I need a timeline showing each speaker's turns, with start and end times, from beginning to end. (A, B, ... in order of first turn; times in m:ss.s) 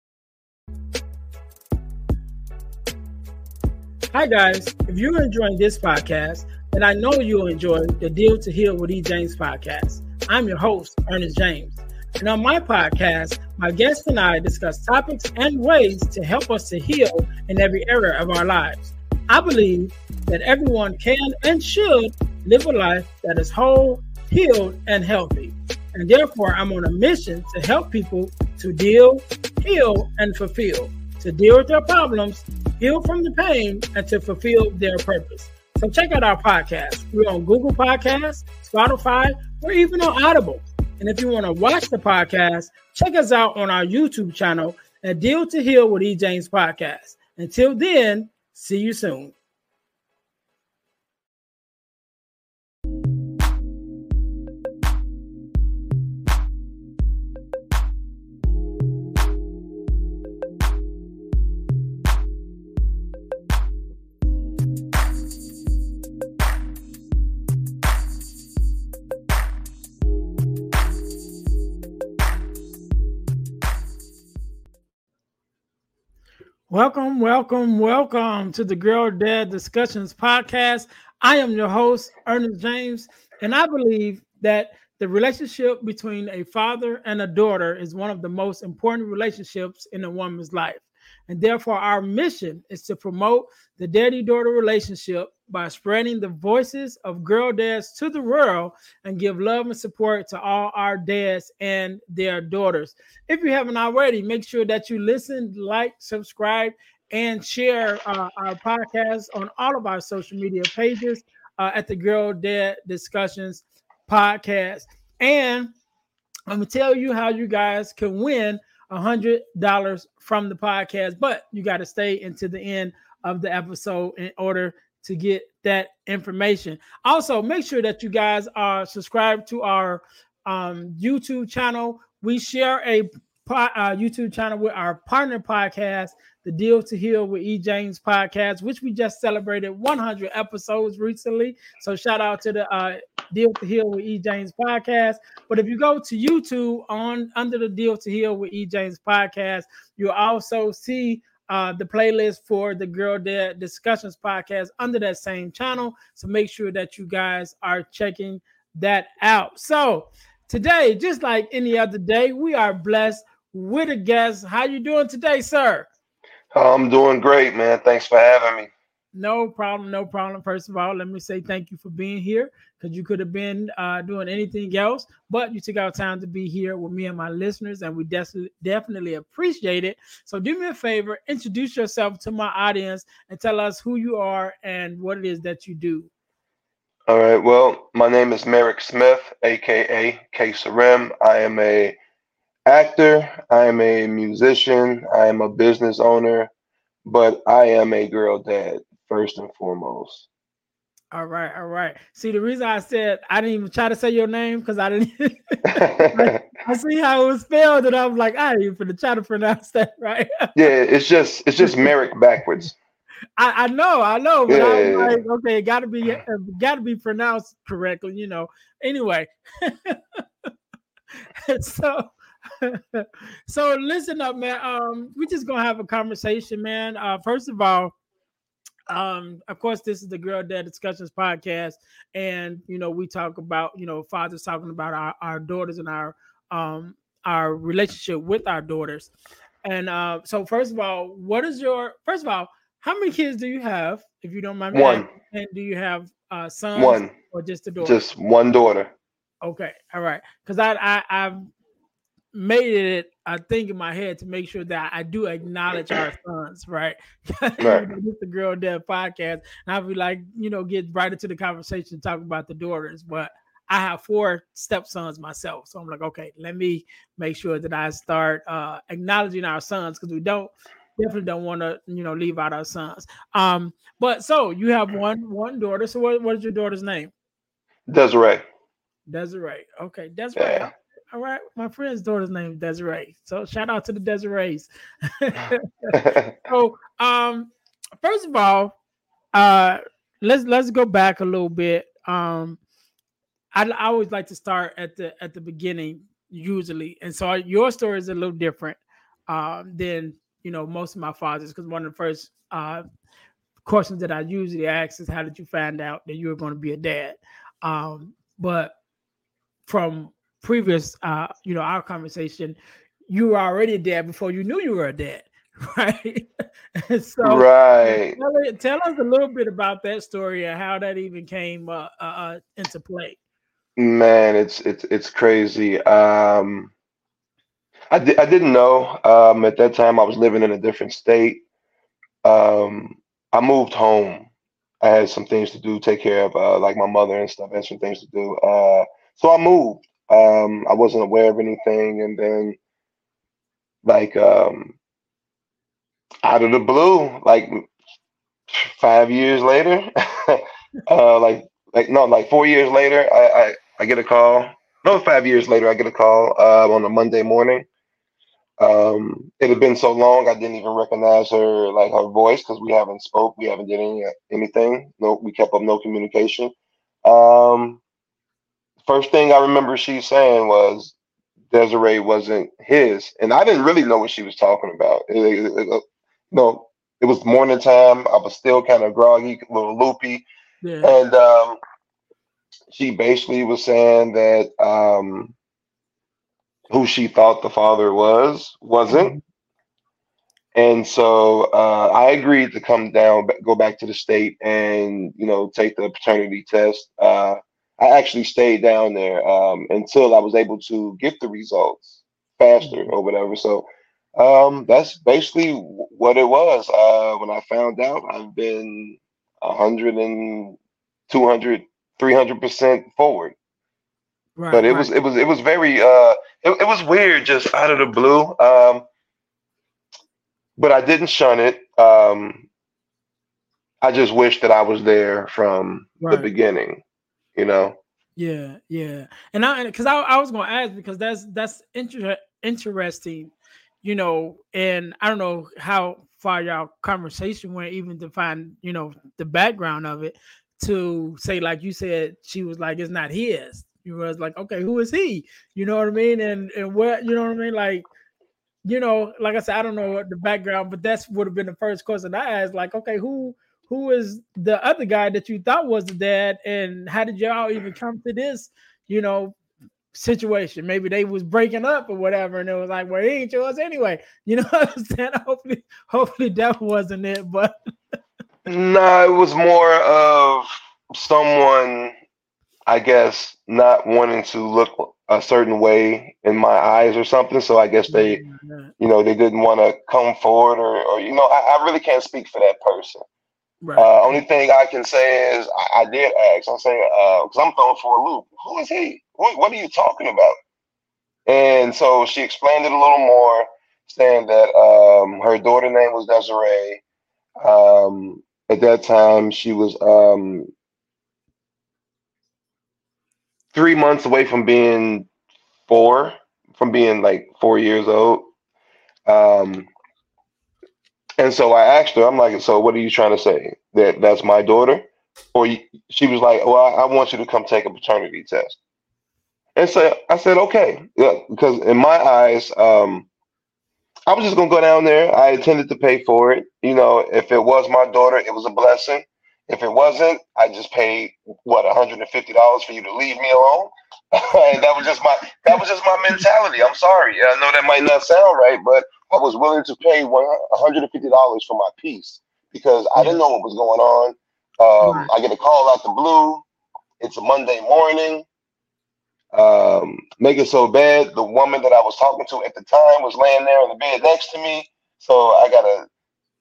0:04.1-0:49.3 A
1:16.7-1:55.7 A
1:56.5-2:45.9 A
2:46.5-2:48.7 B
2:49.1-3:06.1 A
3:07.1-3:12.0 B
3:12.6-3:16.5 B
3:17.0-3:20.2 B
3:21.1-3:30.5 A
3:25.6-3:26.4 B
3:30.5-3:32.7 B
3:31.6-3:31.9 A
3:33.4-3:40.2 A
3:34.5-3:35.2 B
3:41.4-3:47.9 A
3:48.9-3:59.1 A
3:59.6-4:08.0 A
4:04.7-4:05.1 B
4:06.7-4:07.1 B
4:07.8-4:08.9 B
4:09.4-4:11.5 A
4:12.3-4:37.1 A
4:17.6-4:17.9 B
4:37.9-4:38.4 B
4:39.1-4:48.7 A
4:40.4-4:40.7 B
4:45.9-4:46.3 B
4:49.3-4:52.6 A
4:53.5-5:02.8 A
5:03.6-5:08.7 A
5:09.6-5:12.6 A
5:13.1-5:23.2 A
5:17.2-5:18.2 B
5:23.8-5:26.7 B
5:27.9-5:31.4 B
5:32.2-5:34.3 B
5:34.8-5:42.6 B
5:43.8-5:44.7 B
5:46.2-5:47.7 B
5:48.5-5:57.6 B
5:58.6-6:06.5 B
6:07.0-6:07.8 B
6:08.8-6:10.9 B
6:11.5-6:20.2 B
6:20.6-6:20.9 A
6:20.8-6:21.6 B
6:22.7-6:25.3 B
6:26.7-6:29.2 B
6:28.9-6:29.2 A
6:30.5-6:50.6 B
6:42.6-6:42.9 A
6:51.1-6:53.3 B
6:54.4-6:54.9 A
6:54.5-6:58.8 B
7:00.6-7:02.4 B
7:03.8-7:06.8 B
7:06.0-7:06.3 A
7:07.4-7:07.8 B
7:08.2-7:13.3 A
7:13.8-7:27.9 A
7:28.6-7:39.4 A
7:39.9-7:47.5 A
7:48.4-7:51.9 B
7:52.6-7:58.2 B
7:57.9-7:58.7 A
7:58.8-8:03.0 B
8:03.6-8:04.1 A
8:03.8-8:10.3 B
8:11.3-8:16.8 B
8:17.4-8:20.5 B
8:23.5-8:25.1 B
8:25.7-8:28.3 B
8:29.0-8:29.7 B
8:31.2-8:38.6 B
8:39.6-8:43.1 B
8:44.1-9:06.4 B
9:04.8-9:05.1 A
9:07.0-9:08.2 B
9:09.3-9:15.8 B